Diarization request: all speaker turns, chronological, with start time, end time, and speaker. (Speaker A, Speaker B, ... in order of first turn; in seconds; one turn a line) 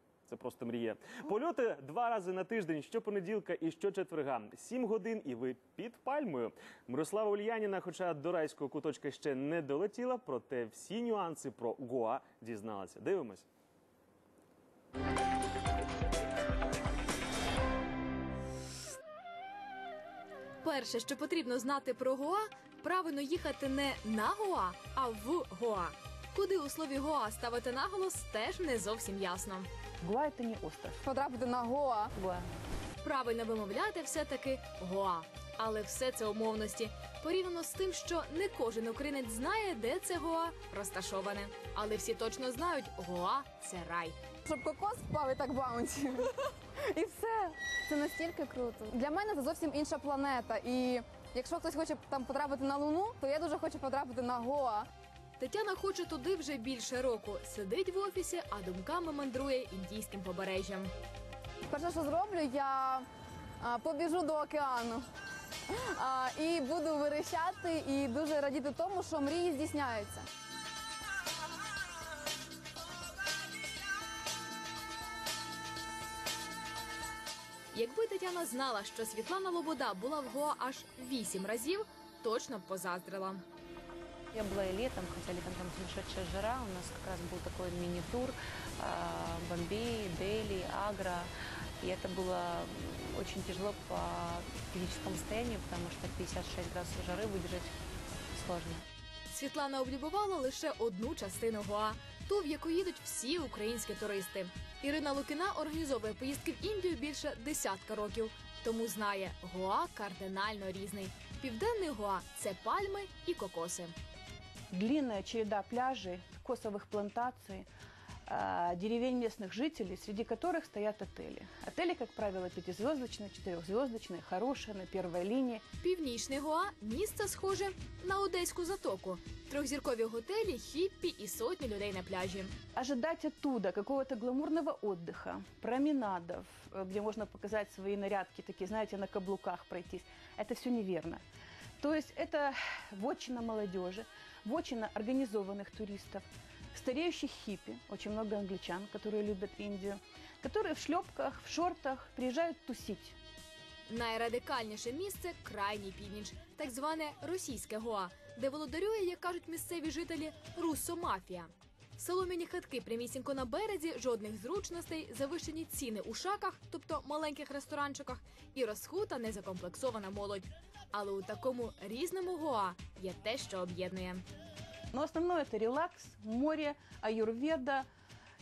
Speaker A: 0.3-13.5
Speaker B: 20.6-29.7
Speaker C: 30.0-31.0
Speaker D: 31.0-32.1
Speaker B: 33.0-44.1
Speaker D: 44.5-54.9
Speaker B: 55.4-60.9
Speaker D: 61.7-63.0
Speaker D: 63.6-65.0
Speaker D: 65.7-70.3
Speaker B: 77.7-83.4
Speaker E: 84.3-97.7
Speaker E: 98.3-98.8
Speaker B: 99.3-113.9
Speaker C: 114.7-117.7
Speaker C: 118.3-125.6
Speaker B: 125.8-132.5
Speaker C: 132.8-141.2
Speaker C: 141.8-153.2
Speaker B: 153.9-174.2
Speaker C: 174.9-177.9